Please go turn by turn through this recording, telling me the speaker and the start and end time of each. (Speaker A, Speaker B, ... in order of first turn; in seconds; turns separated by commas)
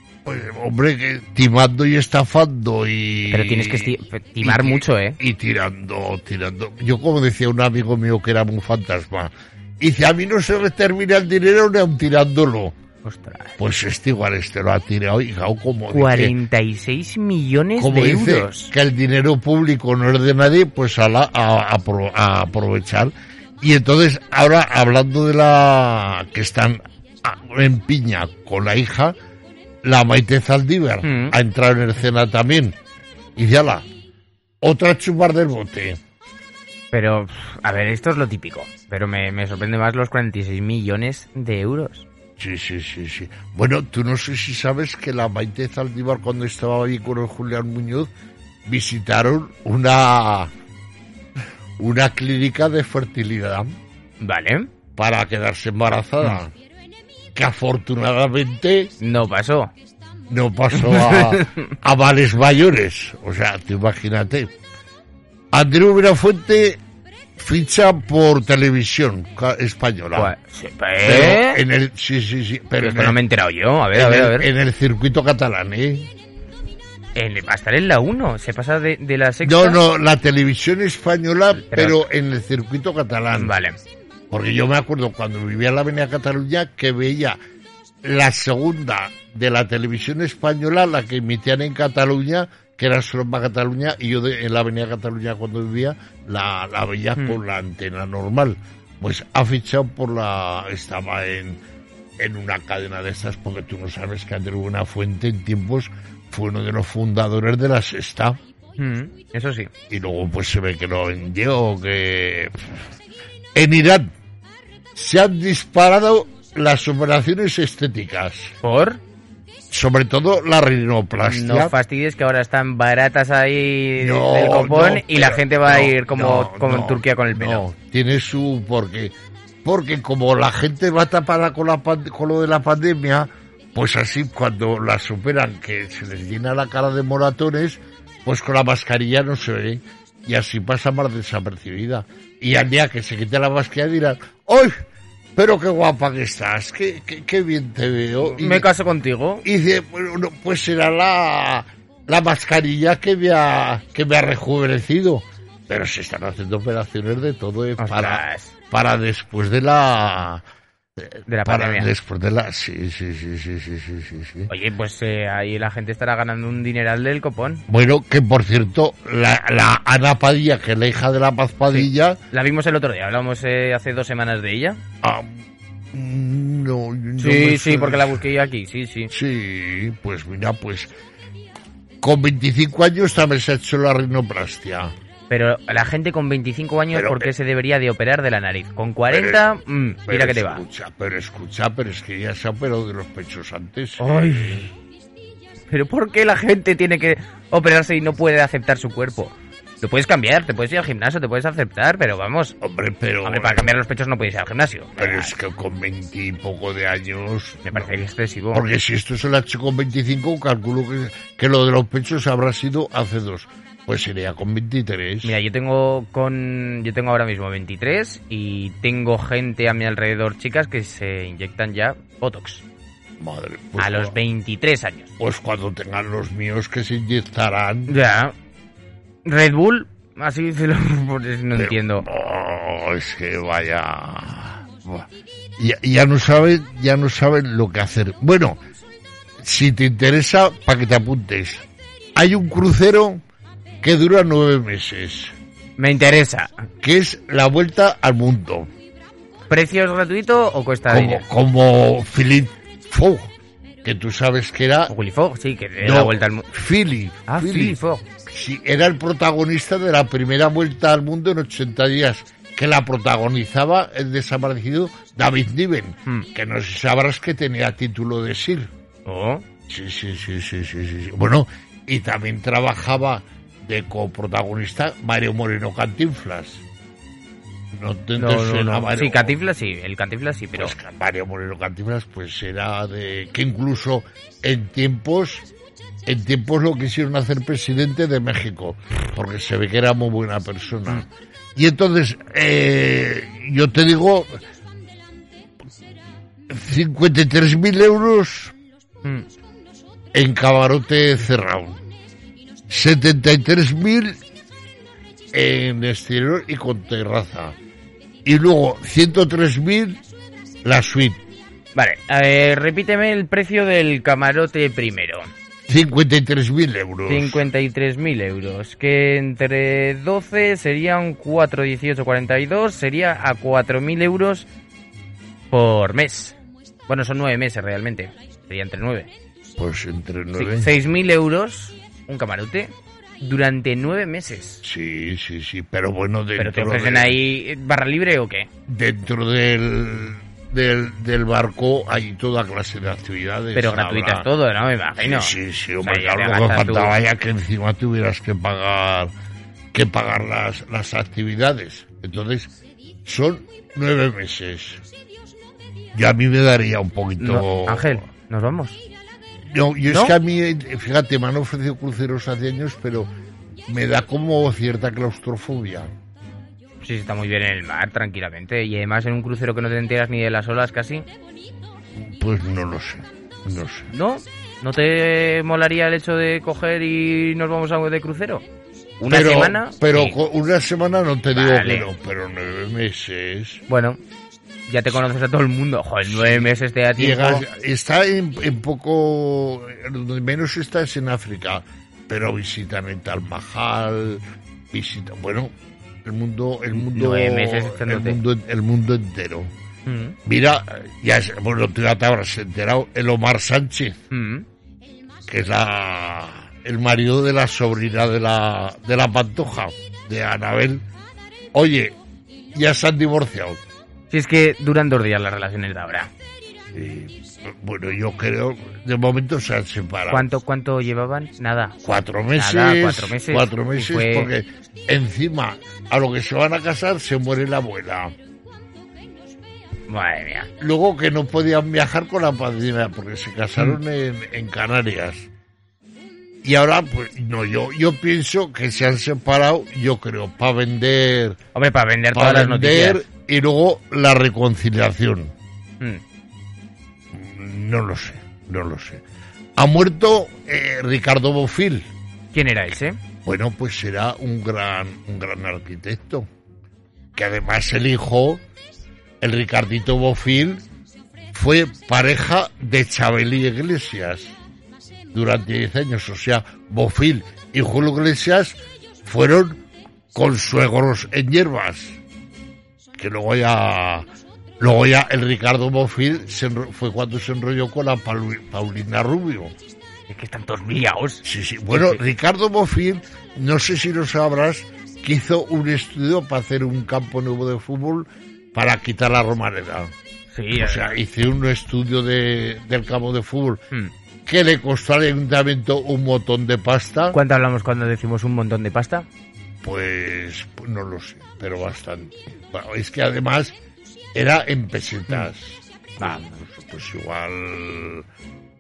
Speaker A: 0.2-12.8, Speaker B: 3.3-5.2, Speaker B: 13.0-13.6, Speaker A: 13.6-16.4, Speaker B: 15.9-18.7, Speaker A: 17.8-29.2, Speaker A: 29.8-32.8, Speaker B: 31.0-31.4, Speaker A: 33.4-33.9, Speaker A: 34.6-36.0, Speaker B: 36.9-42.1, Speaker A: 42.4-48.1, Speaker A: 48.6-50.5, Speaker A: 51.8-53.8, Speaker B: 54.2-54.7, Speaker A: 55.0-56.5, Speaker A: 57.4-58.9, Speaker B: 59.0-59.7, Speaker A: 60.3-64.5, Speaker B: 60.8-61.7, Speaker A: 65.5-66.8, Speaker A: 67.4-70.3, Speaker B: 70.2-71.6, Speaker A: 71.0-73.2, Speaker B: 72.8-74.5, Speaker A: 73.9-76.1, Speaker B: 77.2-79.8, Speaker A: 79.4-83.5, Speaker B: 81.7-82.0, Speaker B: 83.4-83.8, Speaker A: 84.3-87.4, Speaker A: 88.0-101.6, Speaker A: 102.2-108.4, Speaker B: 108.8-109.7, Speaker A: 109.9-112.8, Speaker A: 113.5-114.1, Speaker A: 115.0-118.5, Speaker B: 118.6-119.0, Speaker A: 119.7-121.7, Speaker B: 121.2-127.6, Speaker A: 124.0-129.1, Speaker A: 129.6-144.7, Speaker A: 145.4-148.7, Speaker B: 148.2-149.4, Speaker A: 149.4-160.4, Speaker B: 157.8-158.5, Speaker A: 161.0-164.5, Speaker B: 161.3-161.9, Speaker B: 164.5-167.6, Speaker A: 167.7-172.2, Speaker B: 171.7-174.8, Speaker A: 175.0-178.2, Speaker B: 177.2-179.1, Speaker A: 179.1-180.9, Speaker A: 182.0-184.9, Speaker B: 185.3-190.6, Speaker A: 186.9-187.3, Speaker A: 189.1-189.5, Speaker A: 190.1-194.7, Speaker B: 194.0-194.7, Speaker B: 195.7-202.6, Speaker A: 202.6-203.7, Speaker B: 203.2-205.3, Speaker A: 205.0-215.4, Speaker B: 207.7-208.7, Speaker B: 215.2-222.6, Speaker A: 223.2-224.2, Speaker B: 223.8-225.1, Speaker A: 225.2-228.0, Speaker B: 227.9-228.3, Speaker B: 229.2-232.1, Speaker A: 231.6-238.6, Speaker A: 239.4-243.2, Speaker A: 243.8-245.3, Speaker B: 245.8-246.7, Speaker A: 246.8-248.7, Speaker B: 249.5-251.2, Speaker A: 250.9-253.3, Speaker A: 253.8-254.9, Speaker B: 254.9-256.5, Speaker A: 255.8-268.7, Speaker B: 257.3-258.1, Speaker B: 269.1-269.4, Speaker A: 269.7-276.6, Speaker A: 277.7-279.4, Speaker B: 278.2-280.7, Speaker A: 280.6-285.5, Speaker A: 286.1-294.4, Speaker A: 296.5-298.5, Speaker A: 300.1-301.8, Speaker A: 302.7-304.2, Speaker A: 305.3-307.6, Speaker A: 308.2-310.0, Speaker A: 310.6-311.2, Speaker B: 311.8-315.3, Speaker A: 315.7-317.4, Speaker B: 317.1-324.5, Speaker B: 325.5-326.4, Speaker B: 326.9-329.1, Speaker A: 329.6-330.7, Speaker B: 330.4-334.6, Speaker A: 334.6-337.2, Speaker B: 336.4-338.5, Speaker A: 338.7-344.3, Speaker B: 343.6-346.9, Speaker A: 345.0-349.1, Speaker A: 349.7-352.5, Speaker A: 353.1-354.8, Speaker A: 355.9-358.0, Speaker B: 357.2-358.8, Speaker A: 359.5-363.1, Speaker B: 359.9-360.2, Speaker A: 363.7-365.9, Speaker B: 366.8-371.1, Speaker A: 371.9-373.9, Speaker B: 373.9-378.4, Speaker B: 379.0-380.2, Speaker A: 379.0-383.6, Speaker B: 381.4-381.9, Speaker B: 383.7-384.0, Speaker B: 384.7-387.4, Speaker A: 386.1-395.5, Speaker A: 396.0-399.5, Speaker B: 396.7-398.2, Speaker B: 399.9-400.2, Speaker A: 400.2-404.0, Speaker B: 404.1-404.5, Speaker A: 405.3-410.8, Speaker A: 411.5-412.0, Speaker A: 412.5-413.6, Speaker B: 414.1-416.1, Speaker A: 416.7-420.3, Speaker B: 420.1-421.8, Speaker A: 421.8-428.1, Speaker B: 422.4-424.3, Speaker B: 429.9-430.5, Speaker A: 430.6-435.3, Speaker A: 436.4-441.4, Speaker B: 441.6-443.0, Speaker A: 442.1-445.3, Speaker A: 447.1-449.0, Speaker A: 449.6-451.9, Speaker B: 452.3-453.0, Speaker A: 453.2-456.3, Speaker A: 457.1-458.4, Speaker A: 459.2-460.6, Speaker A: 461.3-464.4, Speaker A: 465.1-469.6, Speaker A: 470.1-472.0, Speaker A: 473.0-474.1, Speaker A: 474.6-479.5, Speaker B: 480.1-482.0, Speaker A: 481.2-489.9, Speaker B: 490.3-490.9, Speaker A: 490.6-493.6, Speaker A: 494.3-497.2, Speaker B: 497.1-499.1, Speaker A: 499.6-503.6, Speaker A: 504.1-508.1